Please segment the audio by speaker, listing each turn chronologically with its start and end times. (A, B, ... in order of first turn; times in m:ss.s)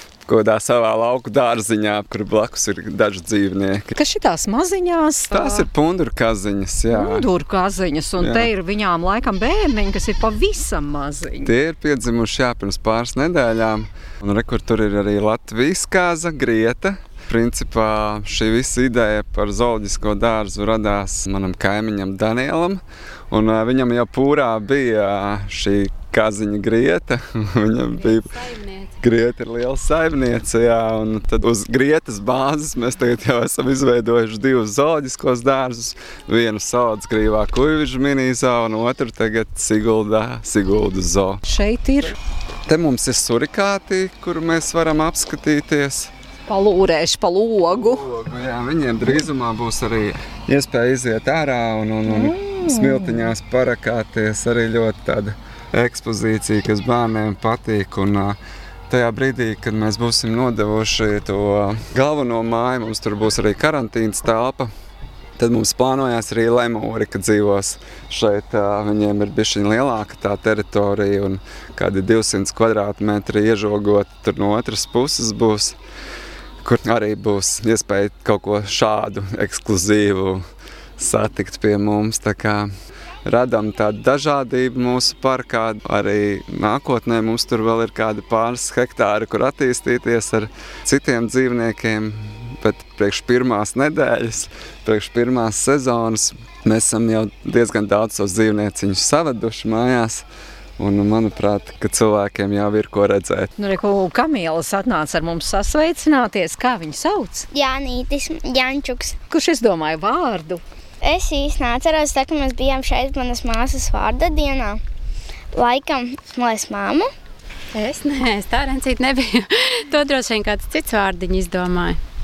0:00.2-0:04.0 A
0:04.0-0:05.7 B
0:05.3-0:07.3 A
0:06.9-0:11.5 B
0:08.2-0:08.5 A
0:11.4-0:28.3 A
0:28.0-0:29.0 C
0:29.0-0:41.4 A
0:41.4-0:42.2 B
0:42.7-0:46.1 A
0:46.5-0:48.1 B
0:47.7-0:58.4 A
0:52.1-0:53.2 B
0:58.9-1:04.7 A
1:05.4-1:15.8 A
1:16.6-1:20.4 A
1:21.0-1:22.7 A
1:23.3-1:40.3 A
1:40.8-1:43.5 A
1:43.6-1:47.5 B
1:47.5-1:49.2 D
1:49.3-1:50.6 B
1:51.0-1:54.8 D
1:55.5-1:57.1 D
1:57.7-2:02.0 C